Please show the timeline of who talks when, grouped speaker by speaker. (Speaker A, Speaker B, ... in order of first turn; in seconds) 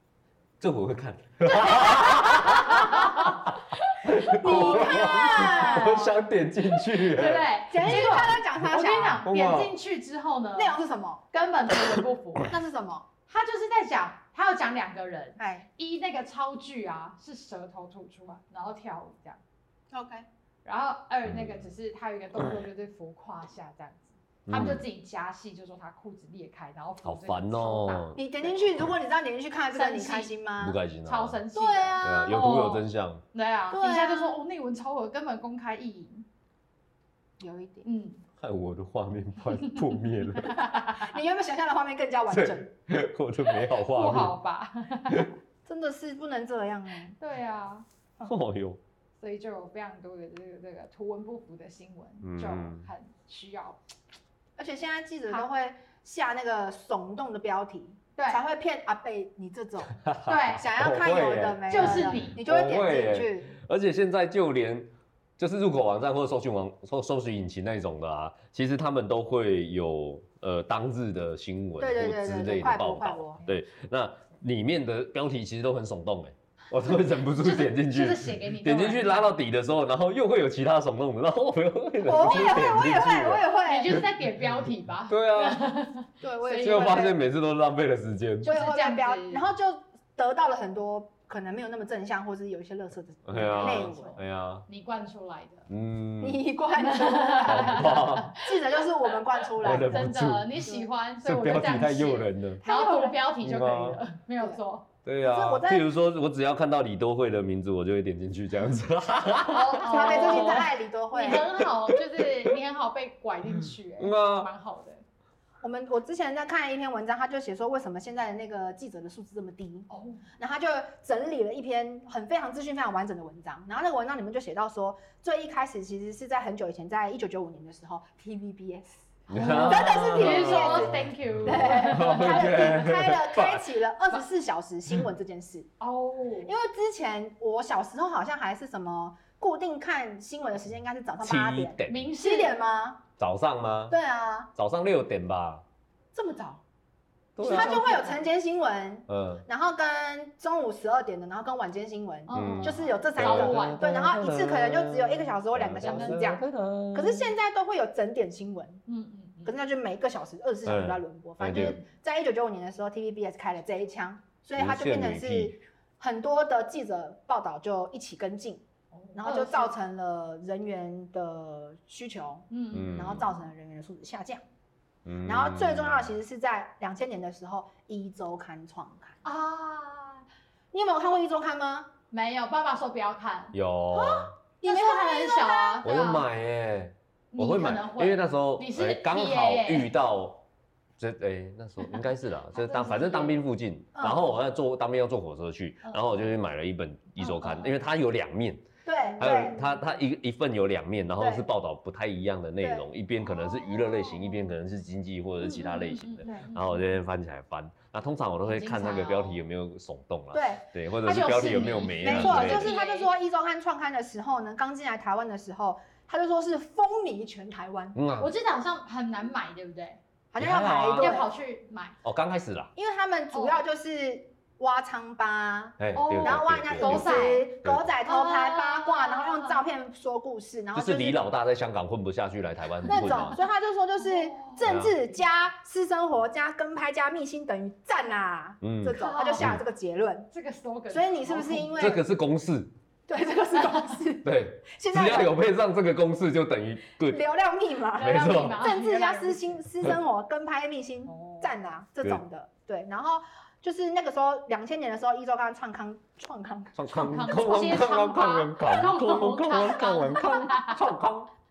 Speaker A: 0.6-8.4, 9.2-9.8, 21.2-21.7, 24.5-24.8, 27.0-28.2, 30.6-31.4, 32.0-33.2, 38.4-40.6, 42.3-44.4, 48.2-48.8, 52.2-52.9, 60.0-84.0, 85.1-85.6, 86.6-88.5, 93.2-94.7, 95.7-96.4, 97.5-98.3, 99.6-100.7, 101.2-102.6, 103.4-104.0, 105.0-110.7, 111.6-112.5, 114.0-114.5, 129.3-133.7, 141.2-142.1, 143.2-143.9, 144.5-145.6, 147.3-147.8, 149.1-149.4, 152.3-157.3, 160.6-161.8, 164.6-165.6, 172.7-173.3, 175.0-176.1, 183.5-184.3, 185.8-190.4, 191.0-198.6, 199.2-212.7, 217.9-218.3, 220.4-221.2, 222.0-222.7, 225.8-227.9, 230.7-233.3, 234.6-234.9, 238.6-239.6, 241.8-242.7, 244.2-247.2, 248.0-248.6, 256.7-261.3
Speaker B: 1.4-6.1, 6.9-10.8, 11.3-12.5, 13.3-19.4, 20.6-28.6, 29.7-30.3, 31.1-36.2, 37.8-38.2, 40.4-41.1, 43.8-45.3, 47.2-47.9, 49.2-53.8, 60.2-60.6, 61.7-62.4, 77.2-79.3, 82.2-82.6, 83.7-87.1, 88.4-89.4, 93.3-95.7, 96.7-98.4, 99.4-104.9, 109.5-115.0, 119.9-120.2, 129.3-132.8, 135.8-136.5, 141.9-142.6, 147.4-148.2, 152.3-153.8, 155.8-156.3, 158.8-159.5, 161.5-161.9, 168.9-169.7, 172.5-173.3, 179.2-180.2, 182.1-183.5, 184.6-186.2, 187.3-189.9, 192.5-193.4, 195.8-196.1, 197.2-197.7, 199.0-199.8, 205.4-206.9, 208.5-209.4, 211.0-213.1, 218.2-220.0, 221.0-221.9, 223.3-223.6, 225.9-227.5, 228.0-229.6, 232.8-233.3, 234.0-234.7, 238.9-239.5, 240.3-242.0, 243.6-243.9, 247.9-249.5, 251.1-251.5, 256.9-260.8
Speaker C: 4.4-6.1, 7.7-9.2, 10.5-11.2, 12.5-13.1, 15.4-15.7, 19.9-20.3, 28.1-30.8, 31.5-32.1, 33.7-34.4, 37.4-37.9, 40.6-42.7, 45.6-47.1, 54.6-63.5, 71.8-73.4, 82.0-84.0, 86.2-87.2, 88.4-94.1, 96.2-100.1, 102.6-103.2, 105.2-105.9, 109.8-111.6, 115.6-135.7, 136.4-143.0, 143.9-144.5, 146.1-146.6, 147.4-158.8, 159.4-174.4, 175.2-179.2, 180.7-181.9, 183.9-185.9, 193.9-194.4, 198.8-199.5, 201.2-201.5, 202.6-202.8, 210.3-218.0, 220.3-221.3, 222.7-231.2, 232.8-240.3, 240.9-242.0, 243.1-245.4, 247.1-257.1